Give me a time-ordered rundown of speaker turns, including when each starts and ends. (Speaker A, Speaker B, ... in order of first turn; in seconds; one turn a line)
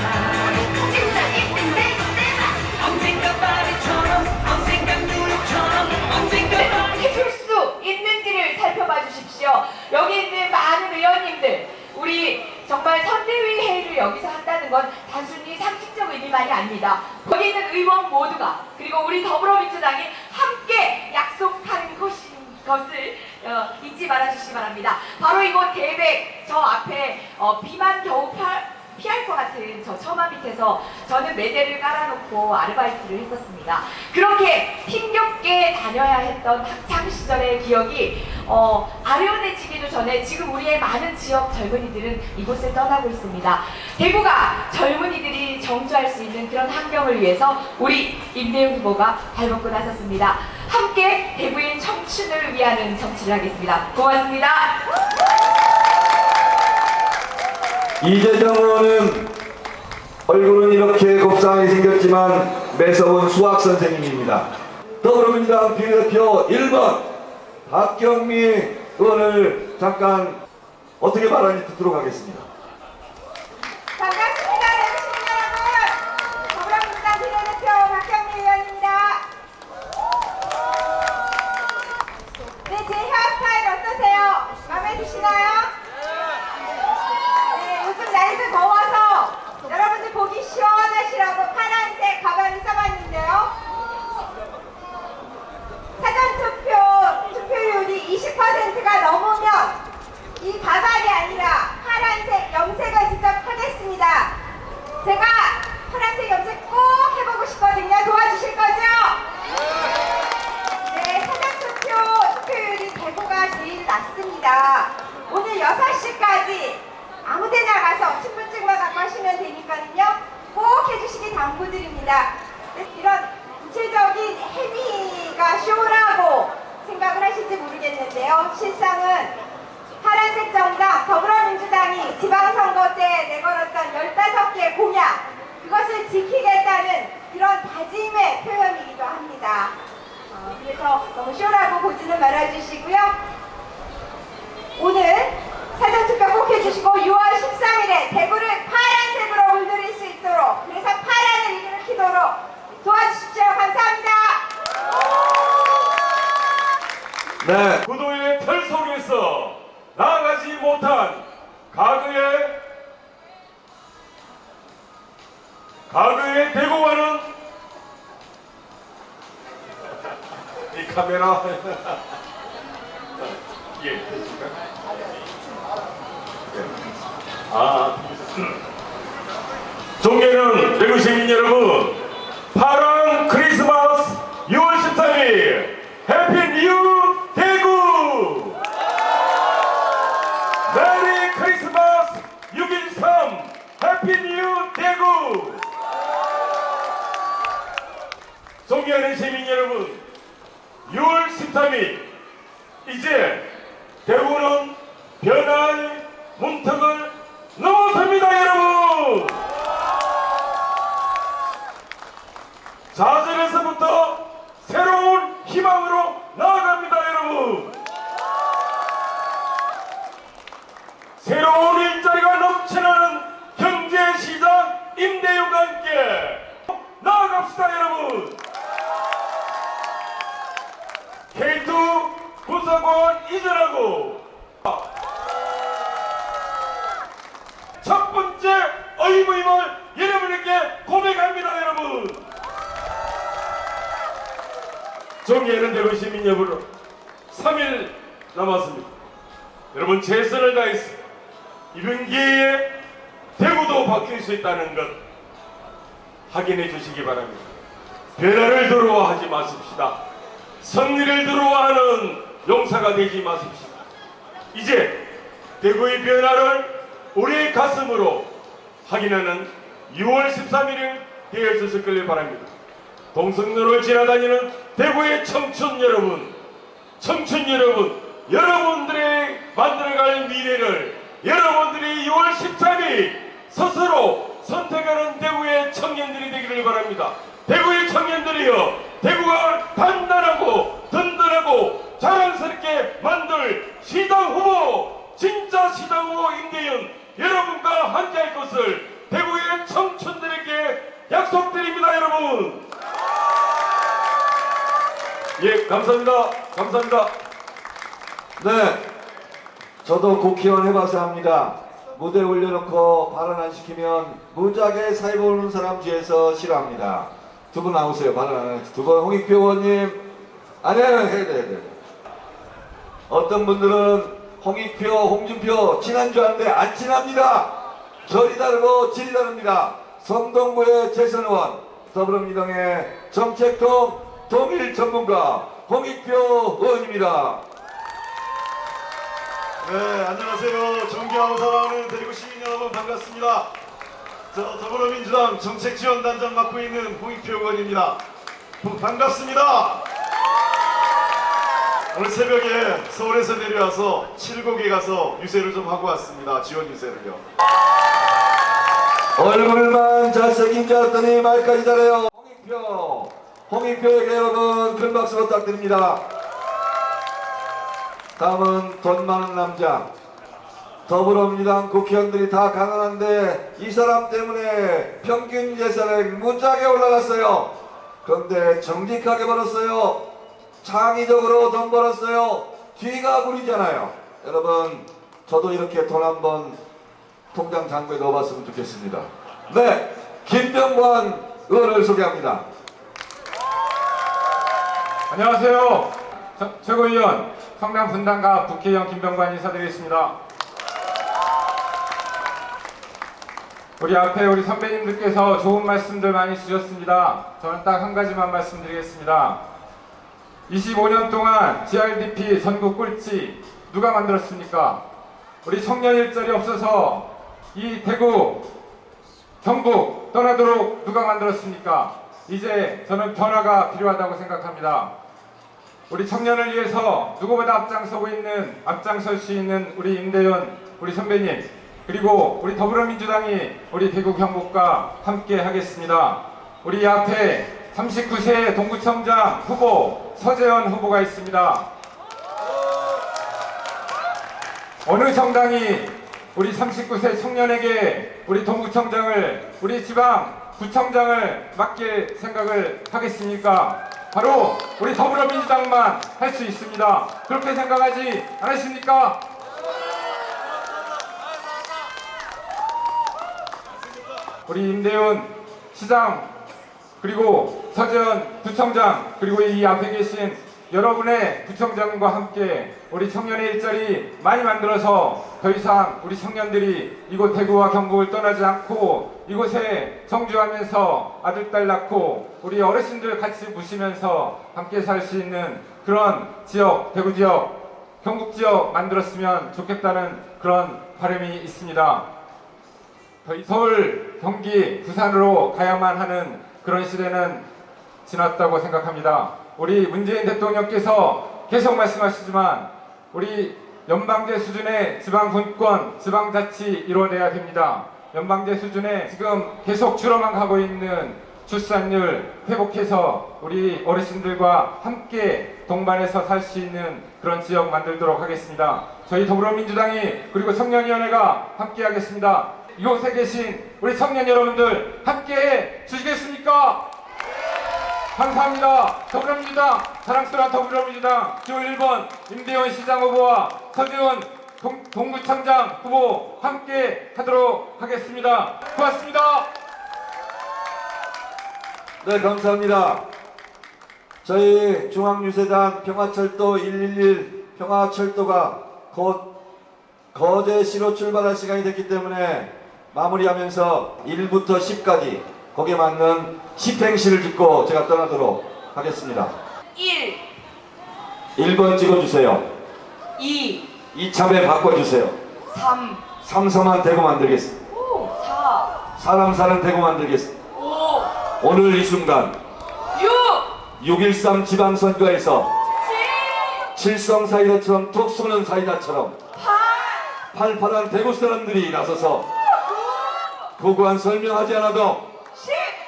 Speaker A: 0.9-54.8
Speaker B: 58.0-59.3
Speaker B: 60.2-64.5
Speaker B: 65.0-67.1
Speaker B: 67.7-70.4
Speaker B: 71.0-72.5
Speaker C: 74.0-79.2
Speaker C: 82.7-85.7
Speaker C: 87.5-93.5
Speaker C: 96.0-99.8
Speaker C: 100.4-104.3
Speaker C: 105.0-109.2
Speaker C: 110.8-129.3
Speaker C: 130.0-139.7
Speaker C: 140.3-143.1
Speaker C: 144.8-154.4
Speaker B: 157.4-157.8
Speaker D: 157.8-162.6
Speaker D: 165.9-167.3
Speaker D: 170.7-172.0
Speaker D: 173.8-174.5
Speaker D: 177.5-178.5
Speaker D: 180.0-188.6
Speaker D: 190.7-195.6
Speaker D: 198.6-200.0
Speaker D: 200.9-202.1
Speaker D: 202.8-203.5
Speaker D: 204.0-209.4
Speaker D: 212.9-217.8
Speaker D: 221.2-228.4
Speaker D: 231.3-234.8
Speaker D: 237.8-242.2
Speaker D: 245.2-246.6
Speaker D: 247.3-248.9
Speaker D: 249.7-251.0
Speaker D: 251.7-252.7
Speaker D: 253.4-255.0
Speaker D: 256.3-257.5
Speaker D: 258.1-260.0
Speaker D: 260.6-263.8
Speaker D: 264.5-265.1
Speaker D: 265.6-268.3
Speaker D: 268.8-272.5
Speaker D: 273.1-276.3
Speaker D: 277.0-302.6
Speaker D: 305.4-307.1
Speaker B: 308.4-308.8
Speaker B: 309.8-320.0
Speaker B: 320.6-321.7
Speaker B: 323.1-327.5
Speaker B: 328.1-337.4
Speaker E: 339.6-343.5
Speaker E: 344.3-348.0
Speaker E: 348.6-349.8
Speaker E: 351.9-357.2
Speaker B: 359.2-366.0
Speaker B: 368.2-369.9
Speaker B: 370.9-377.5
Speaker B: 378.0-380.0
Speaker B: 380.6-386.6
Speaker B: 387.3-392.4
Speaker F: 395.1-400.1
Speaker F: 403.8-409.4
Speaker F: 410.5-414.8
Speaker F: 415.4-418.5
Speaker F: 419.4-424.9
Speaker F: 425.9-441.7
Speaker F: 444.8-459.2
Speaker F: 464.4-466.3
Speaker F: 467.0-492.1
Speaker F: 493.2-497.4
Speaker F: 498.1-526.9
Speaker F: 528.1-539.5
Speaker B: 542.0-543.0
Speaker B: 544.2-549.3
Speaker B: 550.1-559.3
Speaker A: 559.7-560.2
Speaker B: 561.4-562.5
Speaker A: 563.2-563.6
Speaker B: 563.9-565.1
Speaker A: 565.5-566.0
Speaker B: 566.2-567.5
Speaker A: 567.7-568.7
Speaker B: 569.0-570.3
Speaker A: 570.6-571.1
Speaker B: 571.4-572.4
Speaker A: 572.9-573.5
Speaker B: 573.8-575.5
Speaker A: 575.8-576.6
Speaker B: 576.7-579.1
Speaker A: 579.4-580.1
Speaker B: 580.3-582.2
Speaker A: 582.6-583.2
Speaker B: 583.6-585.1
Speaker A: 585.4-585.8